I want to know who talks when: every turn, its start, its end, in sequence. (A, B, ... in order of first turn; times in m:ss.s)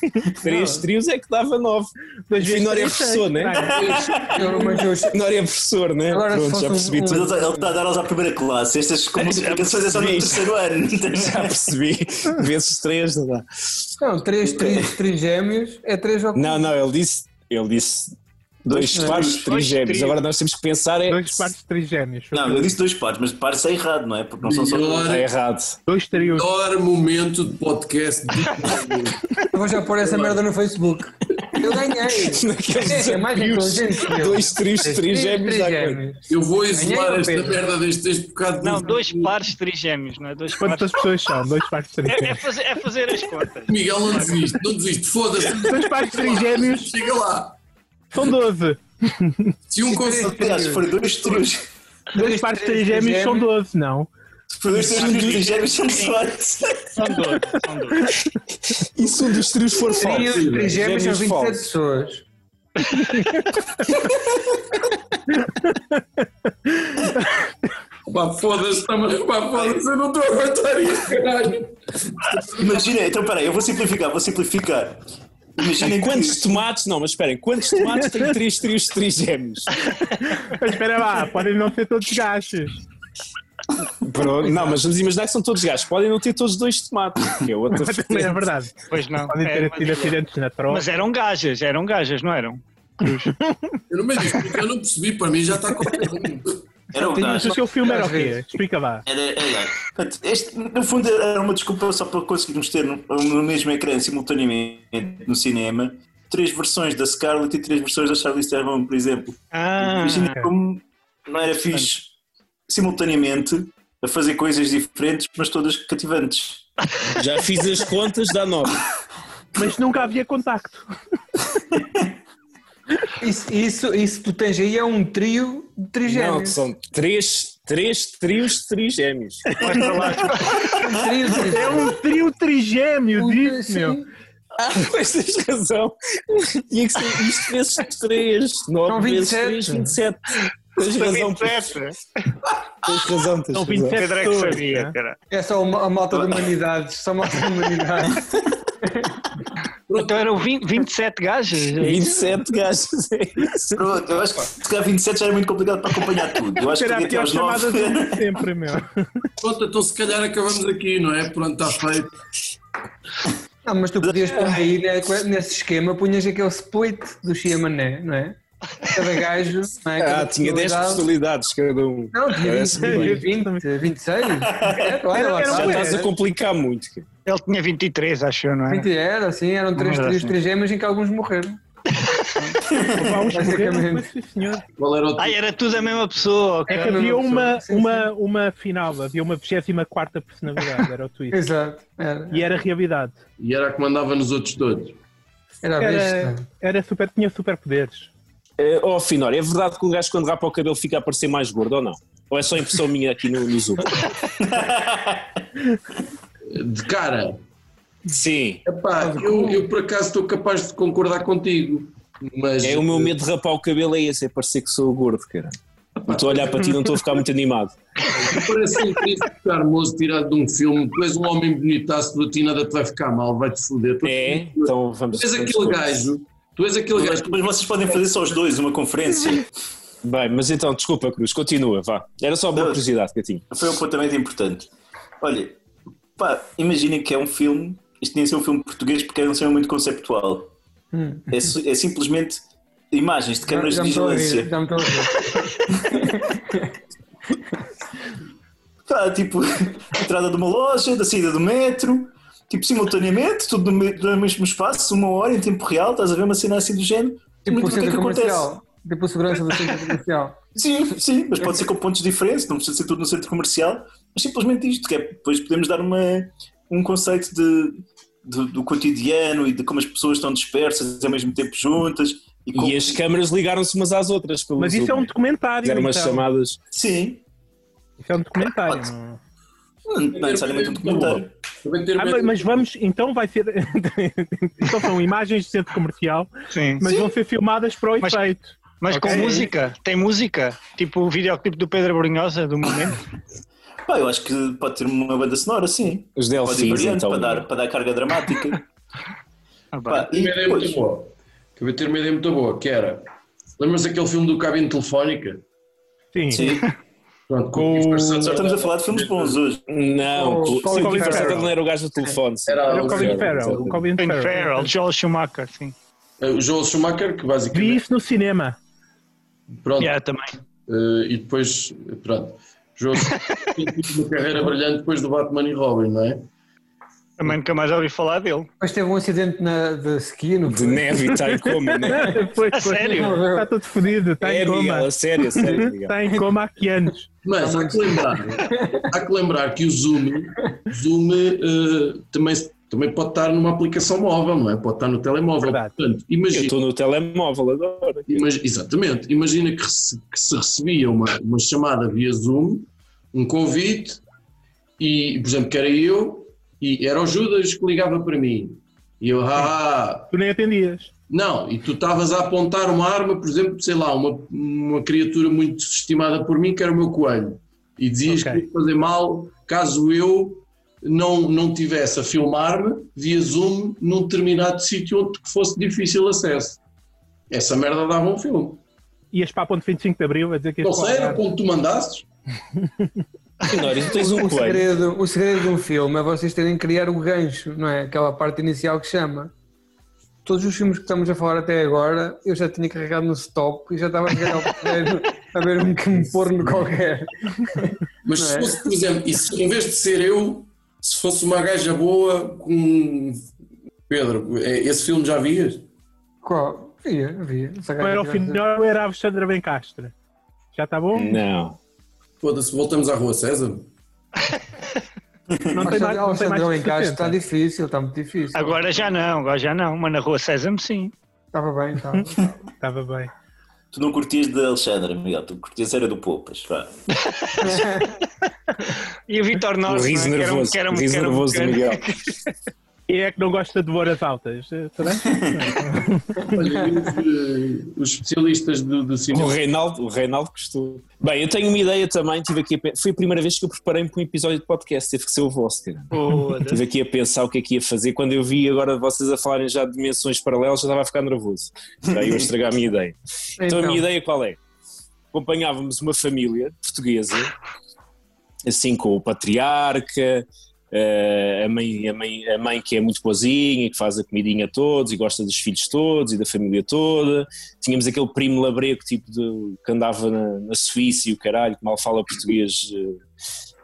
0:00.4-0:03.8 A
0:00.4-0:00.8 B
0:02.3-0:04.0 C
0:03.7-0:04.8 D
0:03.8-0:04.4 E
0:04.3-0:05.2 B
0:05.0-0:07.3 A
0:06.1-0:07.7 B
0:07.0-0:11.6 E
0:09.2-0:10.5 A
0:11.1-0:13.9 A
0:14.0-0:16.6 B
0:14.4-0:14.9 E
0:16.3-0:21.5 A
0:18.6-0:19.5 E
0:18.9-0:19.3 B
0:19.3-0:20.2 F
0:21.1-0:22.7 C
0:22.3-0:25.2 E
0:24.4-0:25.2 D
0:25.0-0:25.8 A
0:25.9-0:26.5 C
0:26.1-0:29.3 D
0:29.5-0:37.6 B
0:29.9-0:30.4 D
0:32.1-0:36.0 A
0:36.3-0:39.4 D
0:38.6-0:41.0 F
0:40.6-0:42.4 C
0:42.0-0:44.5 F
0:43.7-0:47.6 D
0:45.5-0:46.9 C
0:48.1-0:49.6 C
0:49.7-0:50.4 D
0:49.8-0:50.8 B
0:50.2-0:51.7 E
0:52.1-0:54.1 C
0:52.1-0:53.5 B
0:54.5-0:57.2 E
0:56.9-0:58.1 F
0:58.7-1:01.6 A
1:00.0-1:02.2 B
1:00.2-1:00.8 D
1:05.4-1:05.9 C
1:06.6-1:07.4 C
1:08.1-1:12.8 D
1:12.4-1:15.0 E
1:15.6-1:16.6 E
1:15.8-1:19.7 A
1:17.9-1:18.2 C
1:20.2-1:22.8 C
1:24.0-1:28.4 A
1:27.7-1:30.9 C
1:28.9-1:30.2 F
1:30.7-1:33.3 F
1:33.0-1:33.8 C
1:33.9-1:36.6 D
1:36.9-1:37.7 E
1:37.1-1:39.0 C
1:37.1-1:38.4 B
1:39.1-1:52.1 E
1:49.5-1:50.5 F
1:51.6-1:51.9 F
1:52.7-1:56.6 E
1:57.1-1:58.8 A
1:59.6-2:00.9 C
2:03.2-2:06.6 B
2:06.0-2:09.5 A
2:09.6-2:10.7 F
2:10.7-2:12.0 B
2:11.4-2:14.0 C
2:13.2-2:14.1 B
2:14.6-2:21.7 A
2:18.9-2:20.0 B
2:20.8-2:22.0 F
2:22.8-2:24.0 A
2:23.5-2:24.9 C
2:23.9-2:25.2 F
2:25.3-2:28.3 B
2:26.1-2:26.5 E
2:28.8-2:29.2 B
2:29.9-2:30.2 D
2:29.9-2:32.1 F
2:31.8-2:33.8 A
2:33.7-2:38.4 E
2:36.6-2:39.3 C
2:39.4-2:42.1 D
2:43.6-2:51.0 B
2:50.0-2:53.3 A
2:52.1-2:56.1 B
2:52.7-2:53.6 C
2:55.1-2:56.1 C
2:55.4-2:57.1 A
2:57.2-2:58.9 F
2:58.7-3:01.6 B
2:59.8-3:00.4 F
3:01.9-3:02.6 F
3:02.7-3:03.0 E
3:02.9-3:04.6 C
3:03.3-3:04.1 B
3:04.8-3:05.4 D
3:05.2-3:07.2 F
3:06.7-3:08.1 B
3:06.7-3:11.4 C
3:11.3-3:12.5 B
3:12.3-3:13.2 C
3:13.4-3:15.0 D
3:15.6-3:16.4 B
3:15.8-3:18.1 C
3:18.6-3:24.1 A
3:24.4-3:25.4 E
3:26.5-3:27.4 D
3:28.1-3:28.6 A
3:28.6-3:33.1 D
3:29.0-3:29.6 B
3:32.6-3:37.8 A
3:36.1-3:36.8 D
3:38.0-3:47.5 D
3:44.0-3:46.0 A
3:47.0-3:49.5 E
3:50.0-3:53.4 A
3:52.6-3:52.8 E
3:53.5-3:55.6 E
3:56.2-4:00.5 E
4:00.9-4:01.3 B
4:01.3-4:02.4 E
4:02.9-4:04.5 E
4:03.5-4:06.7 B
4:08.9-4:18.5 E
4:17.4-4:20.4 B
4:20.6-4:33.0 E
4:32.6-4:35.1 A
4:34.6-4:36.2 C
4:35.6-4:36.6 A
4:36.7-4:37.2 E
4:38.0-4:39.2 C
4:39.9-4:41.3 E
4:40.0-4:42.6 D
4:42.0-4:49.5 C
4:46.5-4:47.1 F
4:48.0-4:48.2 F
4:48.8-4:53.0 F
4:53.9-4:58.6 E
4:56.2-4:57.4 A
4:59.7-5:00.1 F
4:59.9-5:00.8 E
5:00.1-5:03.1 D
5:03.6-5:05.4 D
5:06.1-5:06.5 C
5:06.3-5:06.7 E
5:07.3-5:09.4 D
5:07.5-5:08.4 C
5:08.2-5:09.6 E
5:09.7-5:13.8 A
5:10.1-5:11.5 B
5:10.6-5:11.5 C
5:12.5-5:13.8 D
5:12.7-5:14.7 C
5:14.0-5:15.7 F
5:16.2-5:17.8 D
5:17.5-5:18.6 C
5:19.5-5:19.9 D
5:19.8-5:20.4 F
5:20.6-5:26.3 D
5:23.0-5:23.6 F
5:27.2-5:28.5 F
5:28.6-5:32.2 B
5:30.5-5:32.2 A
5:31.9-5:37.1 C
5:32.5-5:33.2 F
5:32.9-5:33.5 B
5:34.2-5:36.0 A
5:37.2-5:46.5 D
5:37.4-5:38.8 B
5:45.4-5:45.7 C
5:46.3-5:48.2 A
5:48.1-5:54.0 D
5:54.8-6:00.1 D
6:00.1-6:00.9 C
6:01.1-6:16.6 D
6:08.1-6:08.4 C
6:17.3-6:18.6 D
6:19.1-6:21.2 C
6:20.6-6:22.0 D
6:22.6-6:22.9 C
6:23.5-6:24.7 A
6:23.8-6:29.3 B
6:30.2-6:38.6 B
6:38.0-6:43.2 D
6:43.9-6:45.6 D
6:46.2-6:48.4 B
6:47.8-6:49.9 C
6:50.5-6:51.2 C
6:50.9-6:51.6 A
6:52.2-6:53.7 D
6:55.5-6:57.2 C
6:55.6-6:58.7 B
6:58.3-7:00.9 F
7:01.3-7:02.4 B
7:02.6-7:03.1 C
7:03.7-7:06.7 E
7:07.0-7:07.4 F
7:07.4-7:08.0 B
7:09.1-7:12.1 F
7:09.7-7:11.9 A
7:12.9-7:16.3 C
7:15.1-7:15.4 E
7:16.3-7:19.4 D
7:19.1-7:34.4 A
7:25.9-7:26.6 F
7:33.4-7:33.8 B
7:35.1-7:37.3 A
7:38.4-7:53.0 A